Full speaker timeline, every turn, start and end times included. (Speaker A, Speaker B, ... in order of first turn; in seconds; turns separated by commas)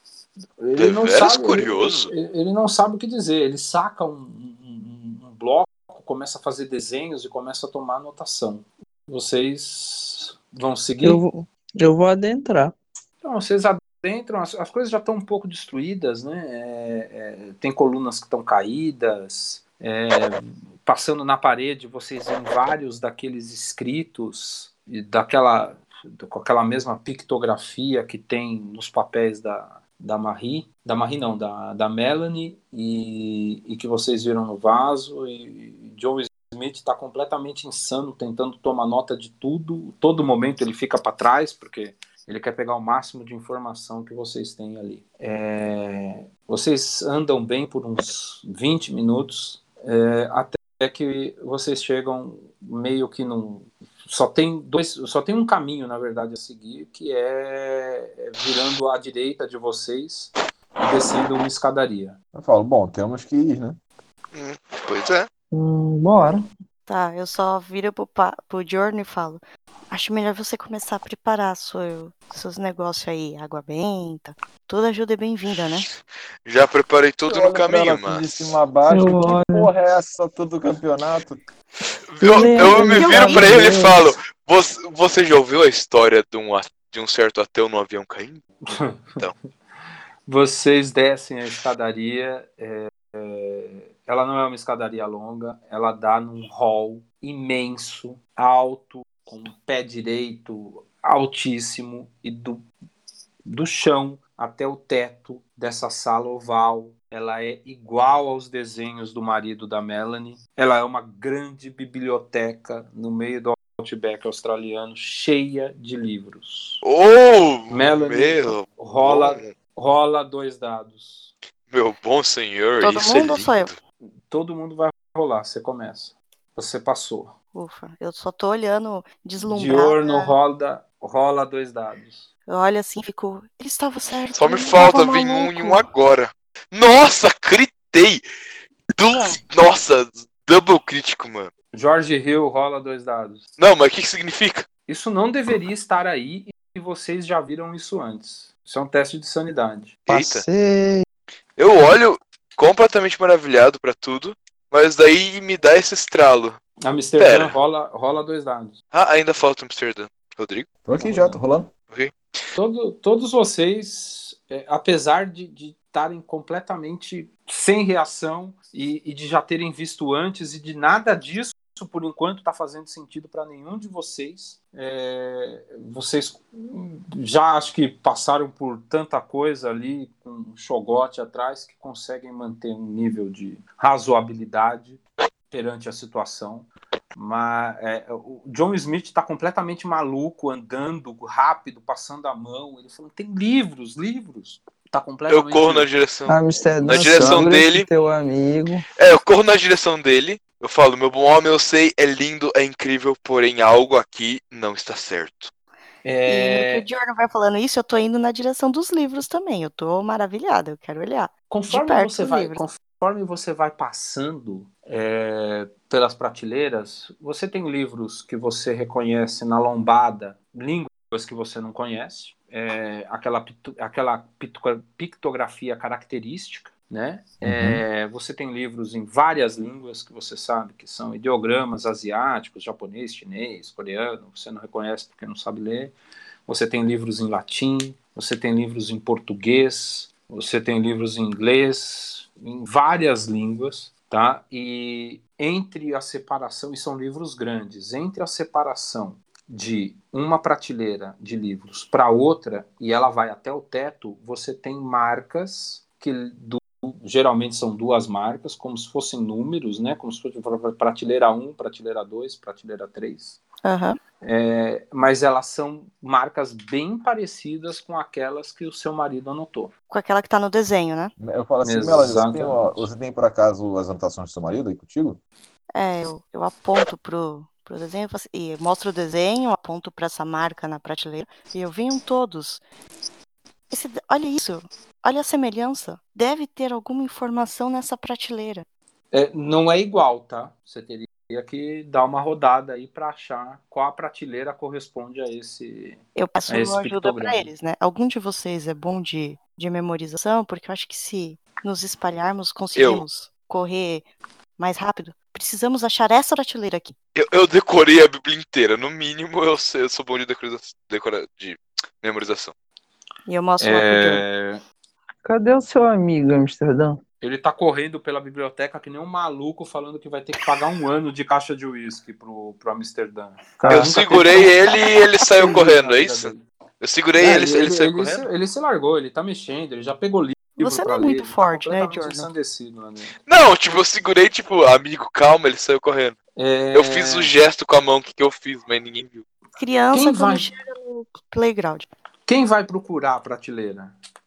Speaker A: 0.6-11.2, Speaker B: 0.8-2.1, Speaker C: 11.0-12.7, Speaker A: 13.2-62.2, Speaker D: 62.3-63.8, Speaker B: 64.3-65.3, Speaker C: 65.5-66.5, Speaker E: 66.9-75.9, Speaker B: 76.5-78.3, Speaker D: 77.2-81.4, Speaker C: 78.9-79.7, Speaker B: 82.1-89.3, Speaker C: 82.2-84.0, Speaker E: 82.9-83.6, Speaker A: 88.7-89.0, Speaker A: 90.3-102.7, Speaker A: 103.5-116.8, Speaker B: 116.8-119.5, Speaker A: 117.7-121.3, Speaker B: 121.7-123.7, Speaker E: 122.8-123.7, Speaker A: 124.0-127.3, Speaker E: 127.5-130.3, Speaker A: 129.4-132.3, Speaker E: 132.5-135.9, Speaker B: 134.3-138.2, Speaker B: 139.0-141.5, Speaker A: 141.7-143.4, Speaker B: 143.6-144.7, Speaker A: 144.9-150.0, Speaker B: 150.1-150.4, Speaker C: 150.1-151.1, Speaker B: 151.6-156.6, Speaker A: 156.8-158.7, Speaker B: 157.2-157.6, Speaker B: 158.9-160.7, Speaker D: 160.8-161.7, Speaker A: 161.0-161.4, Speaker A: 162.6-185.0, Speaker A: 185.5-195.9, Speaker B: 195.3-197.9, Speaker C: 196.3-198.9, Speaker B: 199.0-205.5, Speaker A: 206.0-206.8, Speaker E: 206.3-212.6, Speaker A: 211.5-235.9, Speaker D: 227.4-227.8, Speaker A: 236.5-263.4, Speaker E: 263.6-264.0, Speaker A: 264.2-269.7, Speaker E: 269.9-271.1, Speaker D: 271.2-275.2, Speaker A: 271.6-272.9, Speaker E: 275.7-282.6, Speaker E: 283.7-288.6, Speaker A: 289.1-297.5, Speaker E: 296.2-304.1, Speaker B: 302.7-303.0, Speaker E: 304.6-306.9, Speaker B: 307.1-312.5, Speaker E: 313.3-314.2, Speaker A: 313.6-314.6, Speaker C: 315.2-317.0, Speaker A: 317.2-324.6, Speaker C: 323.6-324.0, Speaker B: 323.7-328.3, Speaker A: 325.4-326.4, Speaker A: 327.2-333.1, Speaker E: 330.6-332.3, Speaker B: 333.3-336.2, Speaker A: 336.4-337.3, Speaker B: 336.7-339.2, Speaker E: 339.6-341.9, Speaker A: 339.9-340.5, Speaker A: 342.3-343.9